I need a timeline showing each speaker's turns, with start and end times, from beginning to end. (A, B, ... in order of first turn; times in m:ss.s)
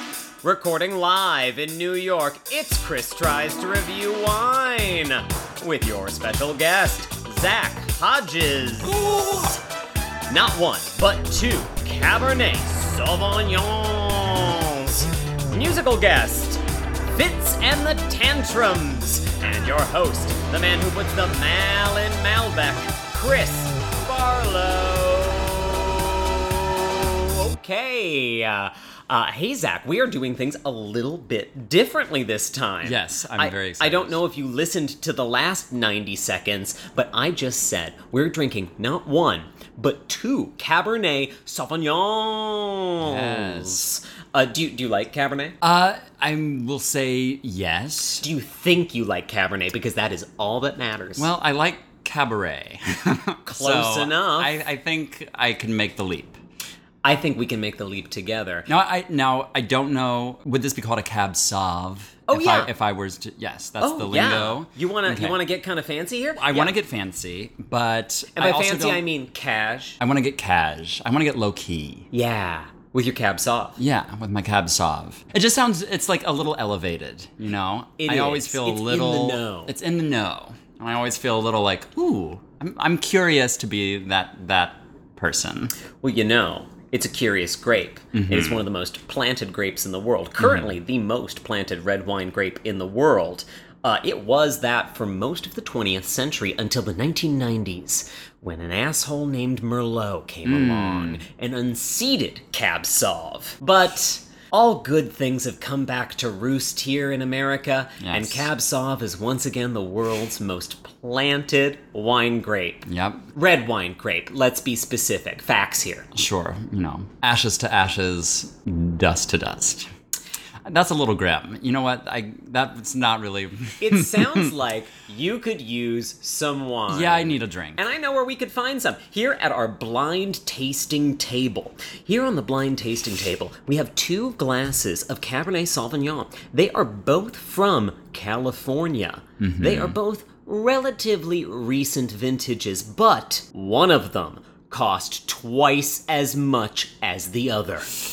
0:00.4-0:09.6 A
0:08.9-0:09.5 B
0:10.3-0:45.6 A
0:32.8-0:34.2 B
0:43.0-0:43.9 B
0:45.6-0:48.2 B
0:48.2-0:51.3 A
0:51.2-0:56.4 B
0:53.4-0:54.5 A
0:57.0-0:58.7 A
0:58.7-1:05.4 B
1:02.3-1:02.7 A
1:03.8-1:06.7 A
1:06.4-1:09.0 B
1:08.3-1:10.0 A
1:10.0-1:12.1 B
1:12.1-1:13.8 A
1:13.8-1:25.7 B
1:18.0-1:19.7 A
1:26.0-1:56.1 A
1:28.1-1:28.6 B
1:30.4-1:30.7 B
1:40.4-1:41.2 B
1:48.0-1:48.5 B
1:52.8-1:53.3 B
1:56.1-1:59.9 B
2:00.6-2:04.5 B
2:03.8-2:27.9 A
2:06.9-2:07.8 B
2:19.4-2:20.0 B